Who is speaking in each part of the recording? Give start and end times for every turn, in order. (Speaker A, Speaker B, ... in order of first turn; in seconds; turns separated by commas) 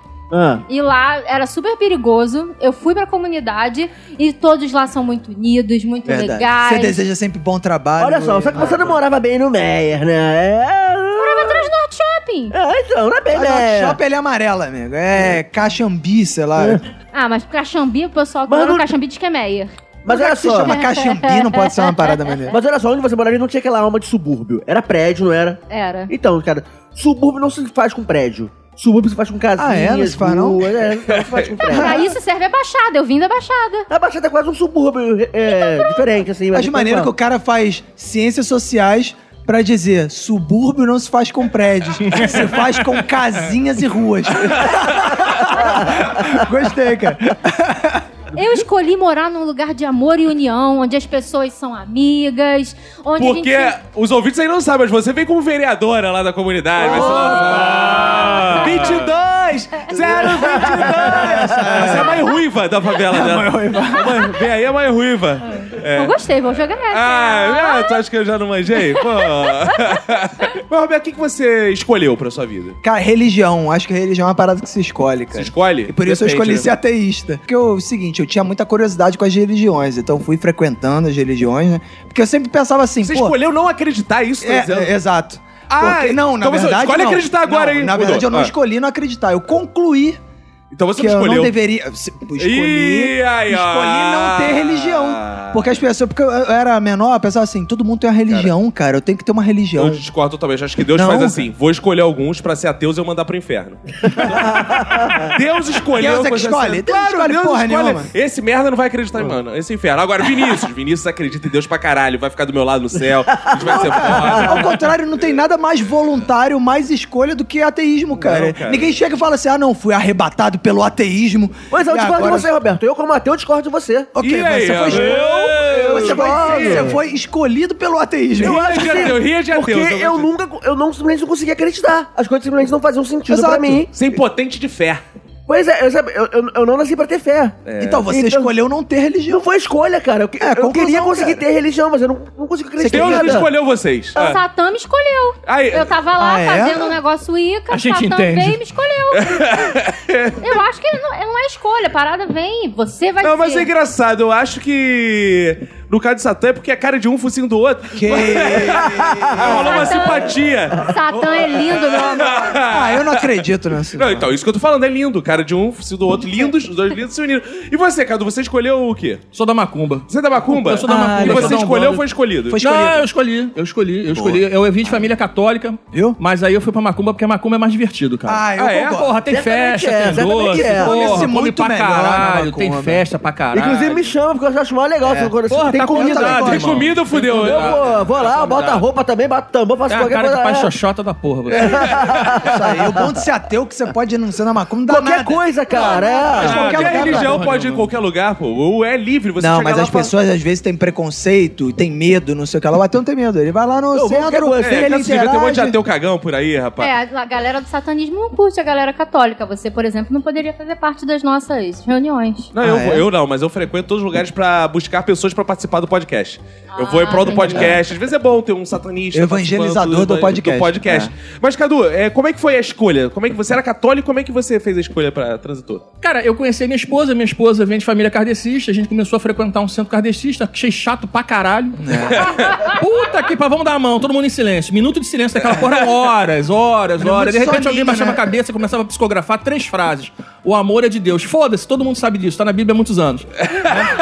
Speaker A: 0.3-0.6, Speaker B: 0.7-7.0, Speaker C: 6.0-9.0, Speaker A: 8.0-11.7, Speaker B: 11.2-12.5, Speaker A: 12.5-14.0, Speaker C: 13.3-16.8, Speaker B: 17.1-19.7, Speaker A: 18.5-18.9, Speaker A: 20.0-20.7, Speaker C: 20.0-22.6, Speaker B: 20.5-22.5, Speaker A: 22.5-32.1, Speaker B: 25.7-26.1, Speaker C: 29.6-30.7, Speaker D: 31.1-31.5, Speaker C: 31.6-32.1, Speaker B: 31.7-33.9, Speaker A: 33.9-37.1, Speaker B: 35.5-36.0, Speaker C: 36.5-48.0, Speaker D: 44.5-44.9, Speaker B: 48.3-53.8, Speaker D: 53.2-66.2, Speaker E: 57.5-58.6, Speaker C: 60.0-62.3, Speaker A: 60.4-61.0, Speaker C: 63.1-64.2, Speaker B: 66.0-68.0, Speaker D: 66.9-72.8, Speaker B: 68.9-69.7, Speaker C: 72.8-83.3, Speaker D: 75.3-76.7, Speaker D: 83.0-84.9, Speaker C: 84.4-90.2, Speaker D: 85.7-88.5, Speaker D: 90.7-91.5, Speaker C: 90.9-100.0, Speaker D: 92.4-95.8, Speaker D: 99.8-114.8, Speaker C: 100.9-101.5, Speaker A: 104.4-105.3, Speaker C: 105.9-108.1, Speaker A: 113.4-114.6, Speaker C: 113.6-122.5, Speaker D: 118.2-119.0, Speaker A: 121.7-124.1, Speaker C: 124.1-129.0, Speaker D: 124.2-126.9, Speaker A: 124.9-127.0, Speaker D: 128.4-130.3, Speaker A: 128.4-133.9, Speaker C: 133.3-133.9, Speaker D: 133.9-135.0, Speaker A: 135.5-137.6, Speaker D: 137.6-138.1, Speaker C: 137.8-139.4, Speaker A: 138.1-138.5, Speaker A: 139.3-143.5, Speaker C: 140.4-141.4, Speaker C: 142.8-143.5, Speaker D: 142.8-144.4, Speaker B: 144.1-149.5, Speaker D: 145.4-145.9, Speaker C: 146.2-147.0, Speaker E: 147.7-148.6, Speaker D: 149.2-150.6, Speaker B: 150.4-153.7, Speaker D: 153.2-169.2, Speaker C: 157.9-159.8, Speaker A: 158.8-159.6, Speaker B: 159.4-162.5, Speaker C: 162.5-164.3, Speaker E: 169.3-172.0, Speaker D: 170.1-172.6, Speaker C: 170.8-171.7, Speaker C: 172.5-173.1, Speaker E: 172.6-184.1, Speaker C: 174.1-174.4, Speaker C: 178.2-179.2, Speaker D: 178.6-179.0, Speaker A: 179.3-181.3, Speaker C: 180.2-183.0, Speaker A: 183.5-186.7, Speaker C: 185.0-186.8, Speaker E: 185.5-188.9, Speaker D: 186.4-187.8, Speaker A: 187.3-190.7, Speaker E: 189.9-192.2, Speaker A: 191.5-193.2, Speaker C: 192.5-197.4, Speaker A: 194.9-196.8, Speaker D: 195.8-200.1, Speaker E: 196.2-197.9, Speaker C: 199.4-205.8, Speaker A: 203.9-205.0, Speaker D: 204.6-206.9, Speaker B: 206.8-212.5, Speaker D: 212.5-225.8, Speaker C: 212.6-213.1, Speaker B: 216.7-217.8, Speaker C: 217.5-217.8, Speaker C: 219.1-221.1, Speaker E: 226.0-243.7, Speaker C: 231.8-232.3, Speaker D: 232.2-232.5, Speaker C: 237.0-238.2